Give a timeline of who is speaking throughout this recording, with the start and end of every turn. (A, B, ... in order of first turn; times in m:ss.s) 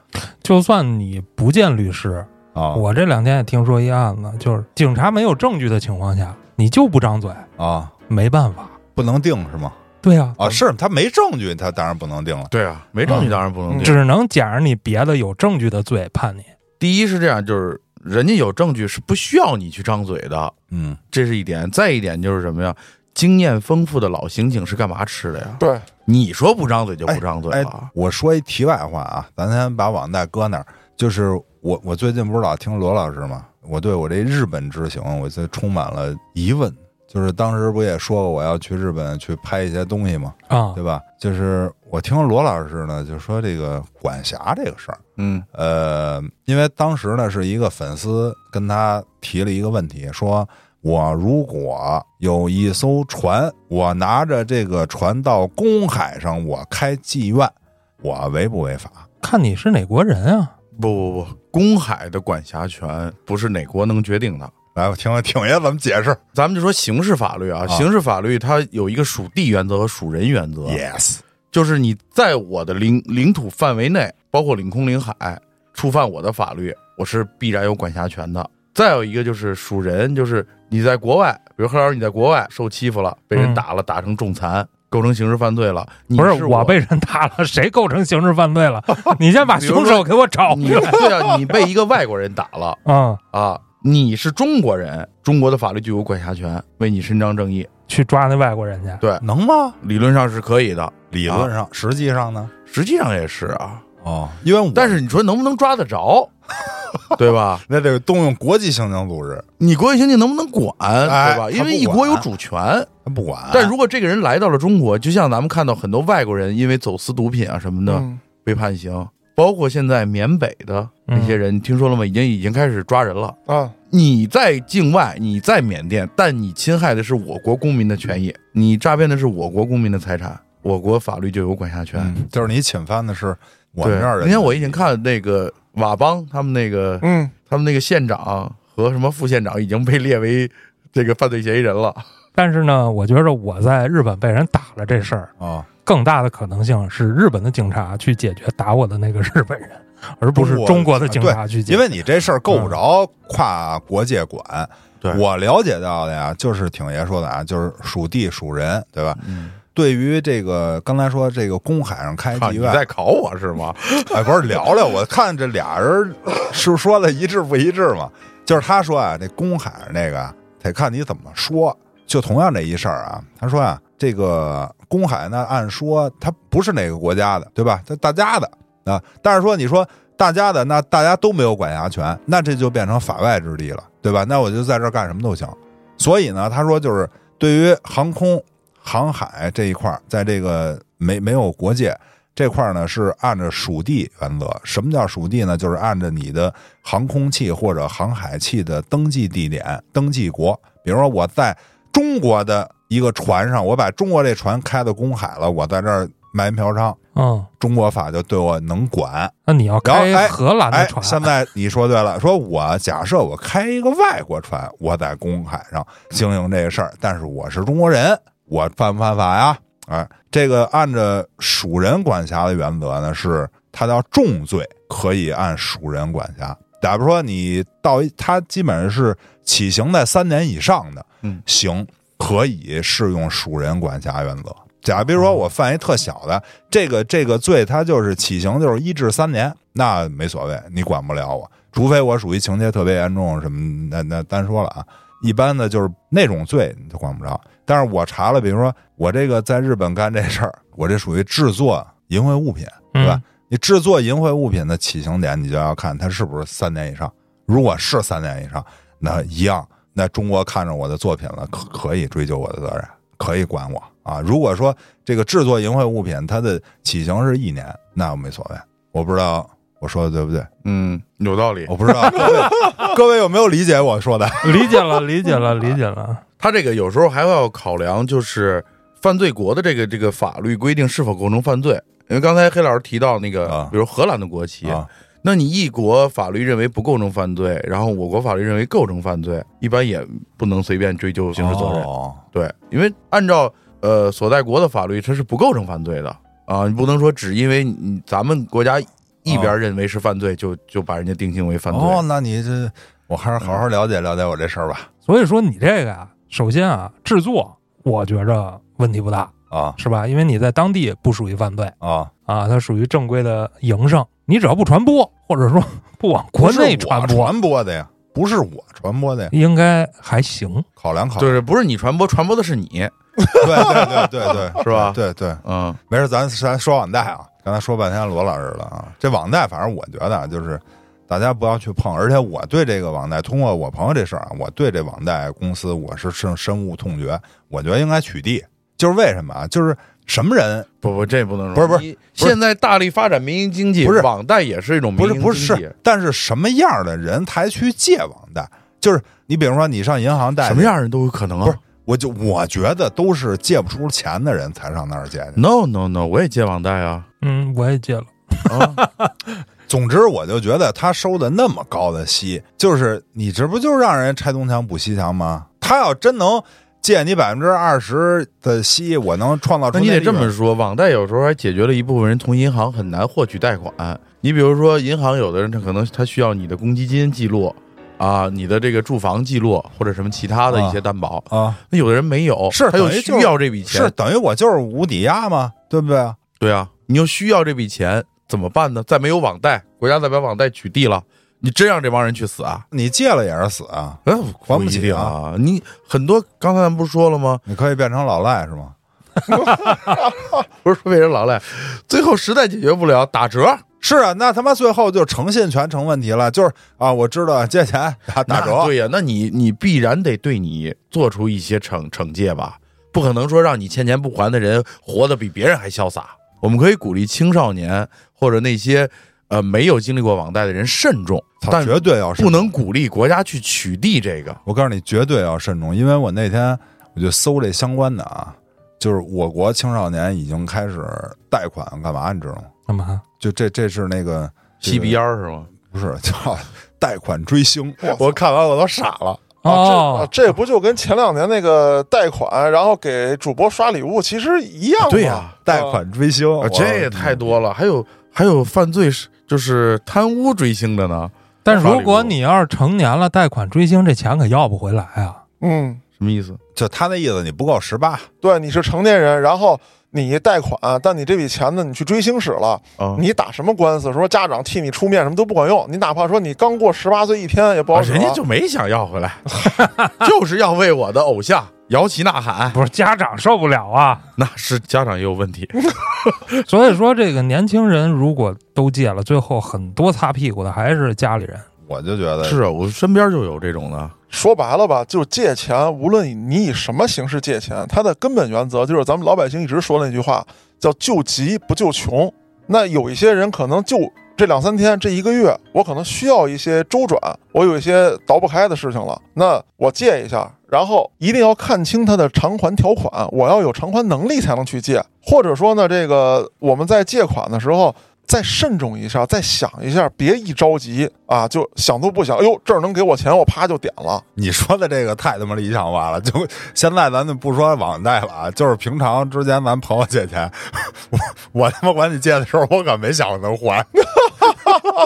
0:00.2-0:07.5 A
0:02.5-0:02.8 B
0:07.6-0:07.9 B
0:08.1-0:08.8 A
0:09.0-0:09.8 B
0:10.0-0:10.4 A
0:10.4-0:12.5 B
0:12.5-0:14.0 C
0:13.0-0:16.5 A
0:16.8-0:20.5 C
0:20.7-0:21.0 B
0:21.1-0:27.9 C
0:25.6-0:25.8 D
0:27.1-0:45.0 B
0:40.5-0:40.8 A
0:45.2-0:45.4 C
0:45.5-0:59.0 B
0:59.2-1:00.5 A
1:00.8-1:04.5 C
1:04.7-1:06.2 B
1:06.3-1:10.8 C
1:10.6-1:11.2 B
1:11.5-1:26.8 C
1:23.3-1:23.6 A
1:26.2-1:31.3 A
1:29.4-1:37.7 C
1:32.8-1:33.2 A
1:37.9-1:39.0 A
1:39.2-1:39.8 B
1:39.8-1:41.5 C
1:41.1-1:42.5 B
1:42.6-1:43.8 C
1:44.0-1:45.0 B
1:44.7-1:46.3 C
1:46.6-1:47.1 B
1:47.2-1:47.6 C
1:47.6-1:49.4 B
1:49.6-1:52.9 C
1:51.0-1:52.3 B
1:53.0-1:53.7 B
1:53.5-2:03.4 C
1:57.9-1:58.2 D
2:01.1-2:01.4 A
2:03.5-2:03.7 D
2:03.9-2:12.1 C
2:12.0-2:14.8 B
2:13.8-2:22.1 C
2:17.0-2:17.3 D
2:22.3-2:25.3 A
2:25.4-2:25.7 B
2:25.8-2:31.9 A
2:30.3-2:42.8 B
2:32.5-2:32.8 A
2:39.2-2:39.6 C
2:42.3-2:44.2 C
2:44.1-3:27.0 B
3:27.1-3:27.5 A
3:27.6-4:30.5 B
3:29.4-3:31.3 A
4:12.9-4:13.2 A
4:30.6-4:32.2 C
4:31.7-4:34.8 B
4:34.4-4:36.2 A
4:36.4-5:02.0 C
4:43.4-4:43.7 B
4:51.3-4:52.2 B
4:59.3-4:59.5 B
5:01.7-5:04.9 B
5:05.0-5:11.7 A
5:09.5-5:09.8 B
5:11.8-5:12.1 B
5:12.2-5:17.3 A
5:16.4-5:19.3 B
5:19.3-5:20.6 A
5:20.8-5:21.4 B
5:21.2-5:24.0 C
5:23.4-5:40.7 B
5:24.6-5:25.8 C
5:40.8-5:45.7 C
5:41.5-5:42.4 B
5:43.8-5:44.1 B
5:45.0-5:50.7 B
5:50.4-5:51.6 C
5:51.4-5:55.4 B
5:55.3-5:57.0 C
5:57.2-5:59.1 A
5:58.5-5:58.8 C
5:59.7-6:10.3 B
6:09.7-6:23.9 C
6:20.5-6:21.6 B
6:22.5-6:26.2 B
6:26.4-6:32.6 C
6:32.7-6:35.1 B
6:34.0-6:37.4 C
6:37.4-6:38.8 B
6:40.6-6:43.6 C
6:43.8-6:48.7 B
6:48.3-7:04.4 C
7:01.4-7:02.6 B
7:04.4-7:12.5 B
7:12.7-7:13.0 A
7:13.2-7:15.0 B
7:14.6-7:15.5 C
7:15.6-7:18.2 B
7:17.9-7:19.2 C
7:19.4-7:20.1 A
7:19.4-7:25.8 D
7:24.8-7:25.4 C
7:25.4-7:27.4 B
7:26.4-7:32.1 C
7:31.4-7:35.2 A
7:35.4-7:35.8 D
7:36.0-7:36.4 C
7:36.5-7:38.1 B
7:38.2-7:48.2 D
7:42.8-7:43.0 C
7:47.7-7:52.6 C
7:49.6-7:49.9 A
7:52.5-7:54.1 A
7:54.2-7:56.2 C
7:56.4-8:01.4 A
8:01.6-8:02.4 B
8:02.2-8:03.9 C
8:04.1-8:34.0 D
8:34.2-8:44.4 B